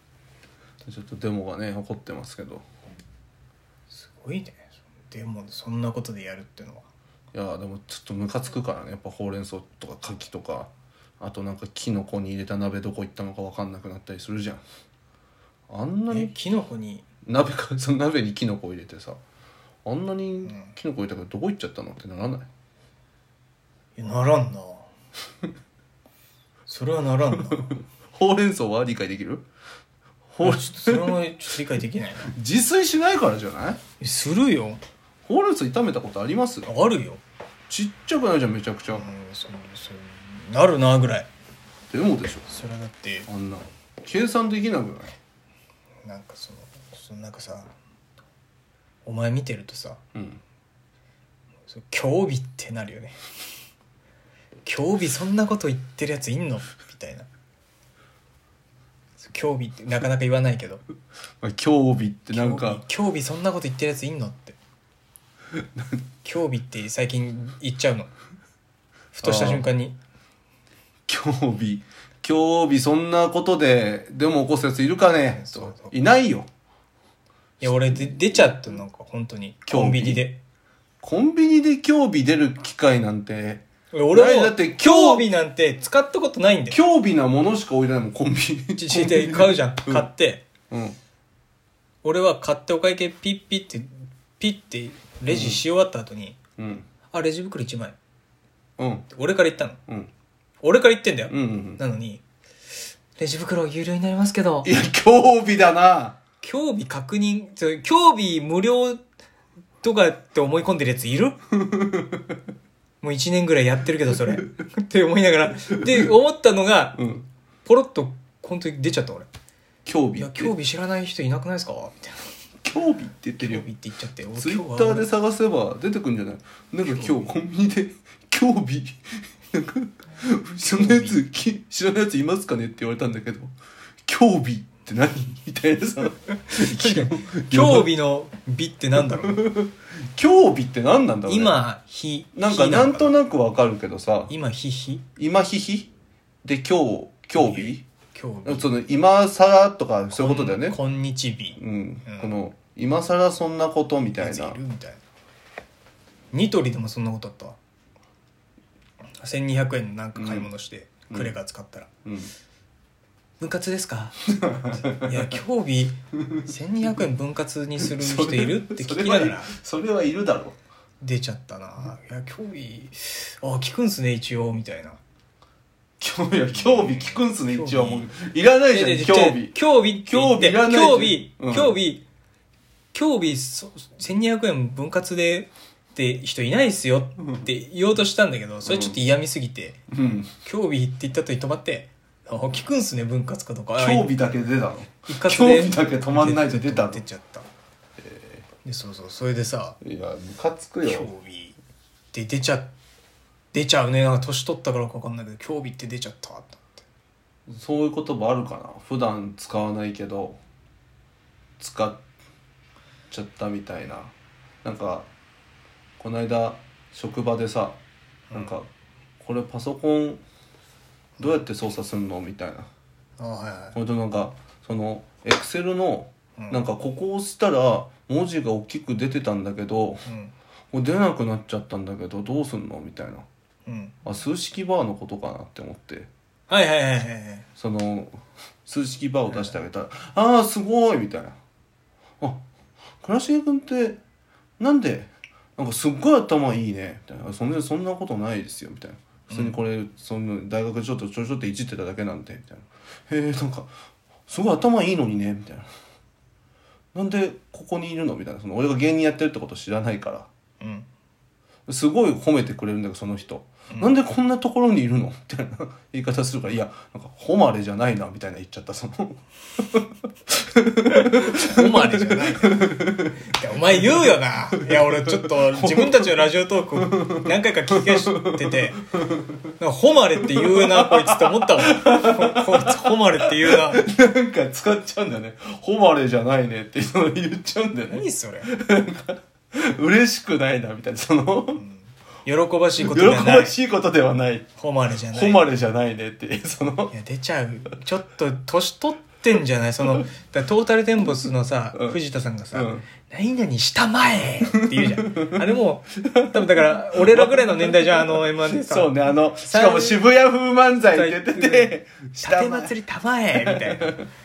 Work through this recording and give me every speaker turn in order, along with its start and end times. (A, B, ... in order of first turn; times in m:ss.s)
0:00.8-0:02.6 A
0:03.9-0:06.9 B
0:07.3-0:14.6 A
0:15.7-0:16.3 A
0:16.1-0:17.0 B
0:17.3-0:19.2 A
0:19.8-0:22.5 A
0:20.4-0:20.7 B
0:24.0-0:24.9 B
0:26.7-0:27.8 B
0:27.5-0:29.5 A
0:30.3-0:31.2 A
0:30.4-0:32.3 B
0:32.2-0:33.8 A
0:34.0-0:34.8 B
0:35.3-0:36.7 A
0:36.6-0:37.2 B
0:37.7-0:39.1 A
0:38.9-0:41.3 B
0:41.9-0:42.4 A
0:42.5-0:43.3 B
0:43.3-0:45.2 A
0:46.0-0:47.7 B
0:49.0-0:50.0 B
0:50.1-0:50.4 A
0:51.7-0:53.2 B
0:54.6-0:57.3 B
0:59.3-1:00.8 B
1:01.4-1:02.8 A
1:02.3-1:04.6 B
1:05.8-1:06.0 A
1:06.2-1:08.1 B
1:09.1-1:10.0 B
1:09.2-1:09.7 A
1:11.1-1:16.5 A
1:15.3-1:15.9 B
1:17.6-1:20.4 B
1:17.6-1:18.2 A
1:19.7-1:20.2 A
1:21.0-1:25.3 A
1:23.9-1:26.8 B
1:26.7-1:30.1 A
1:28.8-1:30.4 B
1:30.7-1:31.0 A
1:32.0-1:36.4 B
1:35.3-1:35.6 A
1:36.6-1:36.9 A
1:37.1-1:38.0 B
1:38.8-1:39.1 A
1:39.1-1:39.8 B
1:40.6-1:42.2 B
1:41.3-1:41.8 A
1:43.2-1:44.7 B
1:44.6-1:46.2 A
1:46.4-1:49.0 B
1:49.8-1:51.4 B
1:51.6-1:52.2 A
1:53.0-1:57.0 B
1:57.0-1:57.3 A
1:57.6-1:59.3 B
1:59.9-2:00.5 A
2:00.2-2:02.3 B
2:02.6-2:03.7 A
2:03.4-2:05.1 B
2:04.4-2:17.9 A
2:06.9-2:07.3 B
2:10.6-2:11.2 B
2:16.4-2:19.5 B
2:19.3-2:21.6 A
2:21.3-2:23.1 B
2:22.4-2:24.3 A
2:24.3-2:25.0 B
2:25.2-2:25.9 A
2:26.4-2:27.8 A
2:27.4-2:28.7 B
2:28.5-2:30.8 A
2:30.1-2:32.4 B
2:31.6-2:34.6 A
2:34.2-2:35.0 B
2:36.3-2:37.6 B
2:39.2-2:41.9 B
2:40.2-2:40.5 A
2:42.0-2:42.3 A
2:43.4-2:44.2 B
2:44.3-2:45.3 A
2:44.7-2:49.5 B
2:47.8-2:50.6 A
2:51.0-2:55.0 B
2:56.0-3:01.8 A
2:56.6-2:58.1 B
2:58.7-3:02.0 B
3:02.9-3:09.8 B
3:08.6-3:09.0 A
3:09.9-3:10.3 A
3:10.4-3:14.1 B
3:13.8-3:17.0 A
3:15.1-3:17.5 B
3:18.0-3:18.4 A
3:18.6-3:19.8 B
3:19.8-3:21.1 A
3:20.8-3:21.6 B
3:22.1-3:22.7 B
3:23.5-3:26.8 B
3:27.5-3:30.4 A
3:31.6-3:32.0 A
3:33.1-3:34.1 A
3:34.6-3:35.1 A
3:36.0-3:37.8 A
3:38.3-3:38.7 A
3:39.2-3:40.2 A
3:41.2-3:42.7 A
3:43.2-3:43.8 B
3:43.7-3:50.1 A
3:46.4-3:46.6 B
3:50.1-3:50.3 B
3:50.7-3:53.2 A
3:53.7-3:54.0 B
3:54.0-3:56.1 A
3:56.5-3:57.5 B
3:57.6-4:01.4 A
4:03.0-4:04.0 A
4:04.6-4:13.7 A
4:09.3-4:09.6 B
4:14.3-4:15.7 A
4:16.9-4:20.3 A
4:20.6-4:20.9 B
4:21.7-4:36.3 A
4:31.1-4:32.7 B
4:33.2-4:38.8 B
4:36.8-4:39.4 A
4:39.6-4:43.8 B
4:40.3-4:51.6 A
4:47.9-4:48.5 B
4:51.6-4:53.6 B
4:52.8-4:54.5 A
4:54.6-4:55.5 B
4:55.1-4:56.9 A
4:56.9-5:10.0 B
5:02.5-5:02.8 A
5:04.5-5:05.3 A
5:06.0-5:12.7 A
5:10.9-5:14.0 B
5:13.4-5:14.0 A